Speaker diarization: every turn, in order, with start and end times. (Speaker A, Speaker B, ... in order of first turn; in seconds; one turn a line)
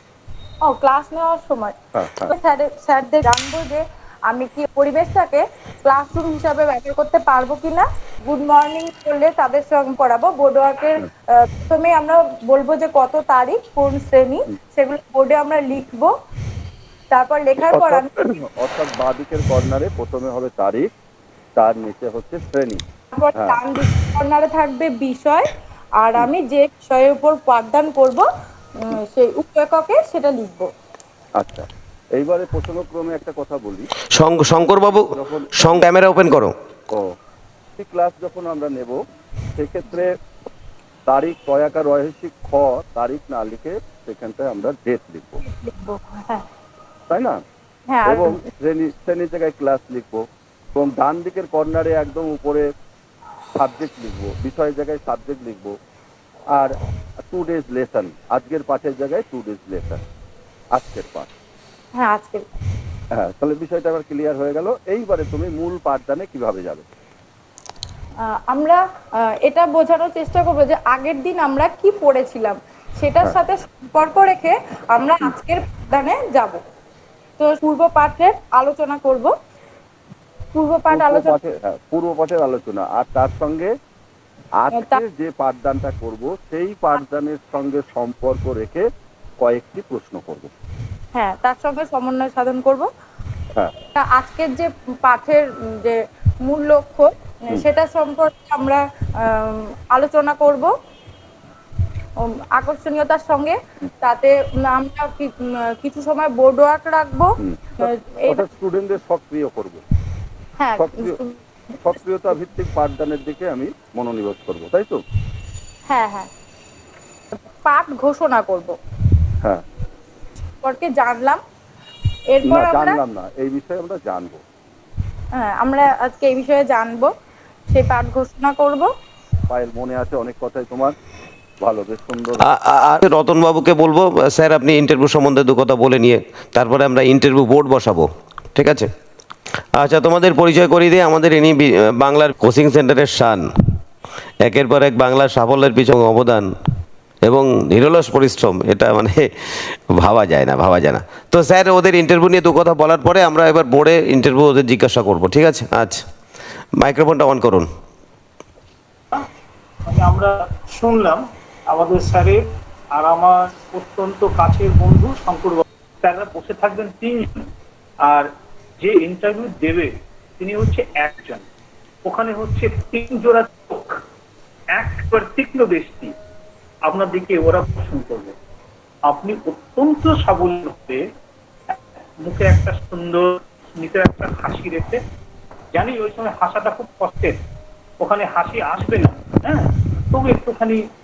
Speaker A: 0.6-1.7
Speaker B: 1.9-2.3
Speaker A: 2.3-16.1
Speaker A: 17.1-18.1
Speaker B: 17.7-20.9
Speaker B: 21.6-22.8
Speaker A: 23.1-30.7
Speaker B: 23.3-23.6
Speaker B: 31.4-33.9
Speaker C: 34.1-36.5
Speaker B: 35.0-35.6
Speaker B: 37.8-39.0
Speaker B: 39.5-40.1
Speaker B: 41.1-45.4
Speaker A: 45.4-46.4
Speaker B: 47.1-47.4
Speaker A: 47.9-48.4
Speaker B: 48.0-50.2
Speaker B: 50.7-52.7
Speaker B: 53.5-55.7
Speaker B: 56.5-60.0
Speaker B: 60.7-61.3
Speaker A: 61.9-62.5
Speaker B: 63.1-66.9
Speaker A: 68.2-76.6
Speaker A: 77.4-79.3
Speaker A: 80.5-81.3
Speaker B: 80.9-83.7
Speaker B: 84.6-88.8
Speaker A: 84.7-85.0
Speaker B: 89.4-90.5
Speaker A: 91.1-92.9
Speaker A: 93.9-100.7
Speaker A: 102.2-108.4
Speaker B: 107.4-109.8
Speaker A: 110.6-111.9
Speaker B: 110.8-111.2
Speaker B: 111.8-115.0
Speaker A: 115.9-116.3
Speaker A: 117.6-118.8
Speaker A: 120.6-121.4
Speaker A: 122.3-123.0
Speaker B: 122.4-124.4
Speaker A: 125.3-127.1
Speaker A: 127.7-128.9
Speaker B: 129.5-130.9
Speaker B: 131.6-132.4
Speaker C: 132.4-138.9
Speaker C: 139.8-143.4
Speaker C: 144.4-146.5
Speaker C: 147.2-156.0
Speaker C: 156.8-157.7
Speaker D: 159.8-167.4
Speaker D: 168.0-171.4
Speaker D: 172.0-174.0
Speaker D: 174.7-176.1
Speaker D: 176.9-178.3
Speaker D: 179.1-181.0
Speaker D: 181.7-185.0
Speaker D: 185.7-187.4
Speaker D: 188.0-190.8